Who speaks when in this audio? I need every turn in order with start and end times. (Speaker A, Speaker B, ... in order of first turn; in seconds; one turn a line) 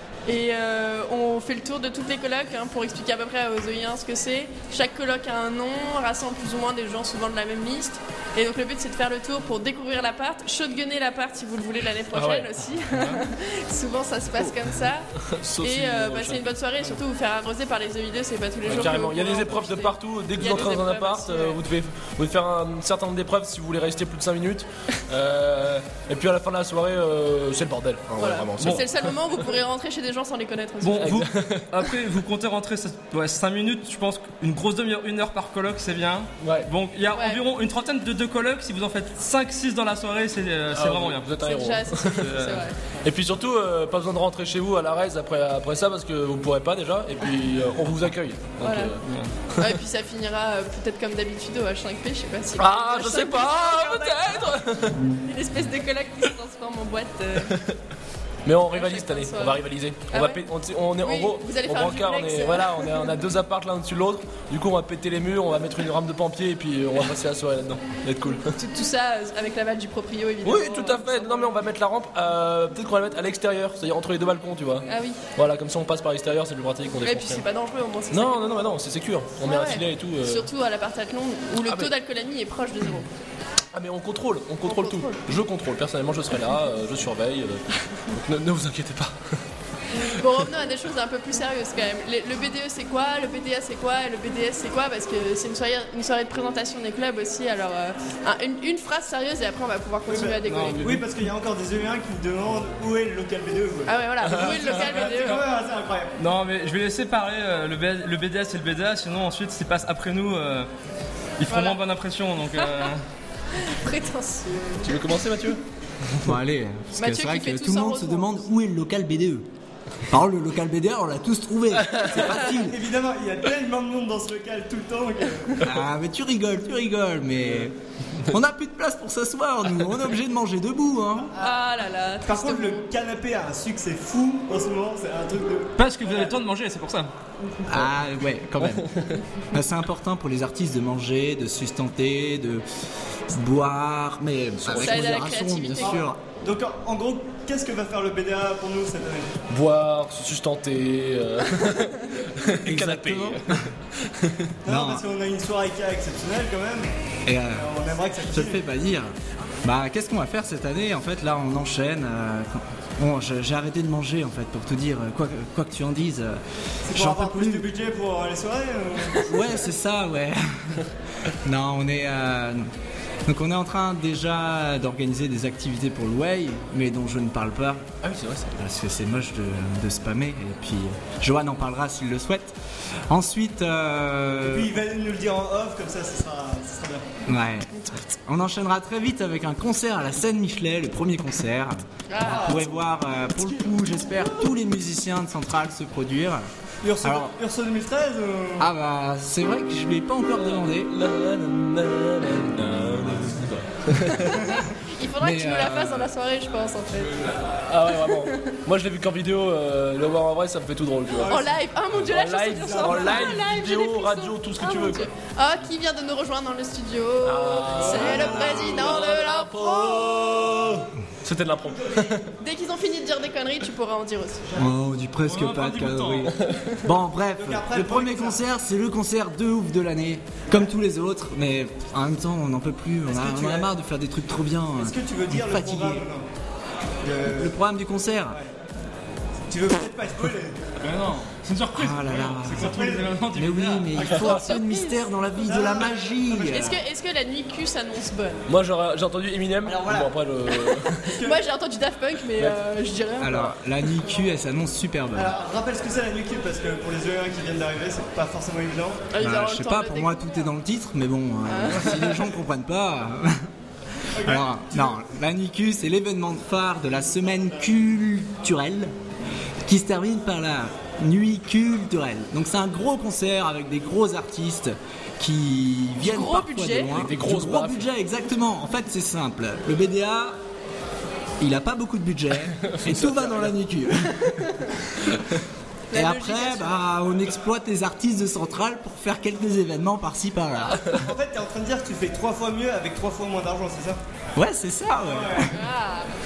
Speaker A: 0.3-15.0
Speaker B: 12.1-12.5
Speaker B: 15.2-16.6
Speaker A: 15.6-21.6
Speaker B: 18.6-29.4
Speaker A: 28.1-31.2
Speaker C: 30.8-41.3
Speaker B: 31.0-31.6
Speaker B: 36.4-36.7
Speaker A: 37.1-37.4
Speaker B: 40.7-42.2
Speaker A: 41.4-42.7
Speaker C: 42.1-42.6
Speaker B: 43.0-49.0
Speaker A: 48.6-48.9
Speaker A: 49.6-54.5
Speaker B: 52.6-55.0
Speaker A: 55.2-57.5
Speaker B: 58.4-68.5
Speaker A: 58.7-59.6
Speaker A: 60.1-60.4
Speaker A: 61.0-63.1
Speaker A: 68.5-71.6
Speaker B: 70.4-74.8
Speaker A: 74.9-75.2
Speaker B: 75.3-77.4
Speaker A: 77.0-78.7
Speaker B: 78.1-80.5
Speaker A: 79.4-83.1
Speaker B: 81.6-81.9
Speaker B: 83.7-87.6
Speaker A: 84.6-85.2
Speaker B: 88.1-89.1
Speaker A: 90.0-100.9
Speaker D: 100.1-106.1
Speaker C: 100.5-101.0
Speaker A: 103.9-105.4
Speaker C: 106.2-110.7
Speaker C: 111.4-113.0
Speaker A: 111.5-111.8
Speaker A: 112.6-112.9
Speaker A: 113.6-114.9
Speaker B: 114.8-115.6
Speaker E: 116.2-119.5
Speaker A: 117.0-118.4
Speaker E: 120.1-122.8
Speaker D: 122.5-125.6
Speaker E: 125.6-127.7
Speaker E: 128.3-131.3
Speaker A: 131.4-132.8
Speaker D: 132.2-136.3
Speaker C: 135.8-137.1
Speaker E: 137.7-138.8
Speaker E: 139.5-142.6
Speaker E: 143.3-146.2
Speaker B: 144.6-145.0
Speaker A: 144.8-146.0
Speaker D: 145.8-149.3
Speaker B: 149.5-153.4
Speaker E: 152.7-153.4
Speaker E: 154.6-155.0
Speaker D: 154.6-156.9
Speaker E: 157.2-159.1
Speaker D: 157.5-158.6
Speaker E: 159.6-167.7
Speaker D: 166.9-169.3
Speaker E: 169.2-170.8
Speaker E: 171.4-172.7
Speaker E: 173.2-177.8
Speaker B: 178.0-178.5
Speaker E: 178.5-182.5
Speaker E: 183.1-184.7
Speaker D: 184.4-187.0
Speaker E: 187.3-196.4
Speaker A: 192.1-192.6
Speaker D: 192.2-192.7
Speaker D: 196.8-198.7
Speaker E: 197.0-197.3
Speaker E: 198.6-200.9
Speaker B: 200.4-204.4
Speaker A: 204.2-207.2
Speaker E: 205.2-206.1
Speaker B: 207.3-211.4
Speaker A: 208.1-208.3
Speaker A: 211.2-220.4
Speaker B: 212.0-215.1
Speaker D: 212.6-213.3
Speaker B: 217.2-222.3
Speaker A: 222.4-224.4
Speaker E: 224.5-236.1
Speaker C: 225.2-226.3
Speaker D: 227.3-228.4
Speaker D: 233.1-233.7
Speaker D: 234.8-236.2
Speaker D: 237.0-237.5
Speaker E: 237.3-238.4
Speaker D: 239.5-240.6
Speaker C: 240.8-244.1
Speaker E: 241.7-246.8
Speaker D: 242.5-243.2
Speaker A: 244.1-245.0
Speaker D: 245.4-246.7
Speaker A: 246.5-248.4
Speaker B: 248.5-251.1
Speaker D: 249.7-250.1
Speaker A: 250.6-253.5
Speaker D: 251.1-251.4
Speaker E: 253.2-255.3
Speaker D: 255.1-259.0
Speaker A: 259.1-260.5
Speaker E: 259.2-263.4
Speaker A: 261.5-262.1
Speaker D: 264.2-265.0
Speaker E: 264.2-268.9
Speaker E: 269.6-280.4
Speaker A: 276.0-277.0
Speaker B: 276.9-277.9
Speaker E: 281.4-284.3
Speaker B: 282.7-283.5
Speaker A: 285.9-286.7
Speaker E: 285.9-290.9
Speaker D: 291.0-294.0
Speaker E: 294.3-295.5
Speaker D: 295.0-295.4
Speaker A: 295.5-296.1